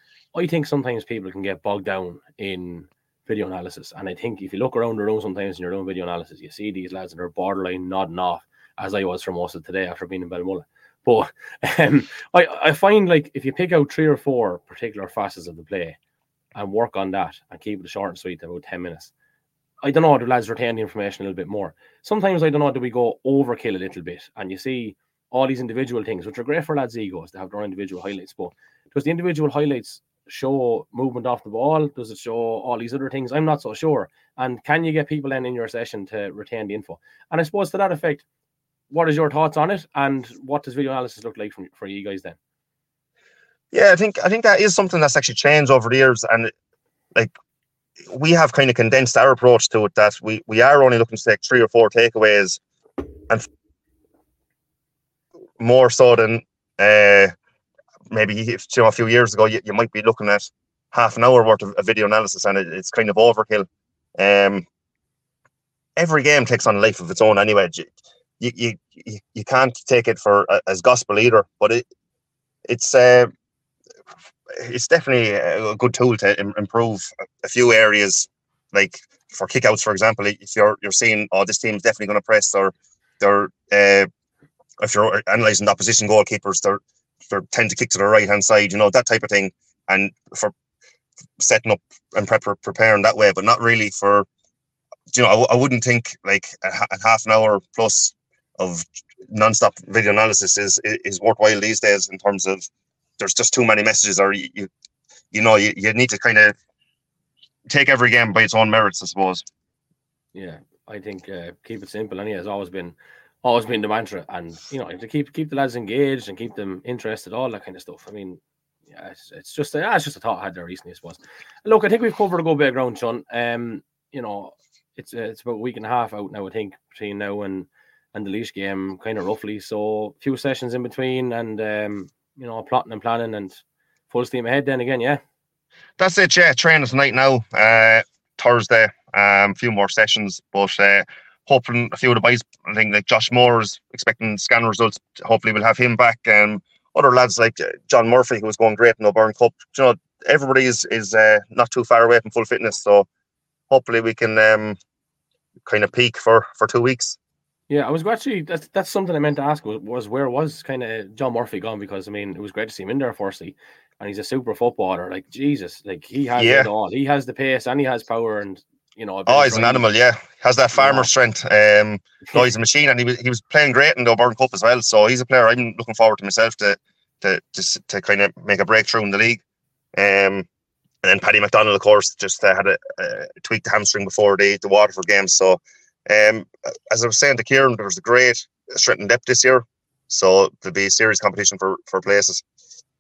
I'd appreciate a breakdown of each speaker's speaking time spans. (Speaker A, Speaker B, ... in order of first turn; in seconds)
Speaker A: 0.3-16.0, 16.5-19.1, 19.8-38.2, 38.9-42.4, 110.3-135.2, 157.7-169.8, 170.8-171.1
Speaker B: 43.7-46.5, 48.1-52.6, 55.6-57.3, 58.1-63.6, 64.2-64.6, 66.0-71.8, 72.7-73.3, 74.5-84.1, 84.8-90.5, 91.4-94.2, 95.1-102.7, 103.2-104.7, 105.3-106.5, 107.7-109.4, 136.0-153.1, 153.7-154.8, 155.7-157.2, 166.4-166.7, 169.3-179.4, 179.9-180.5, 181.0-192.4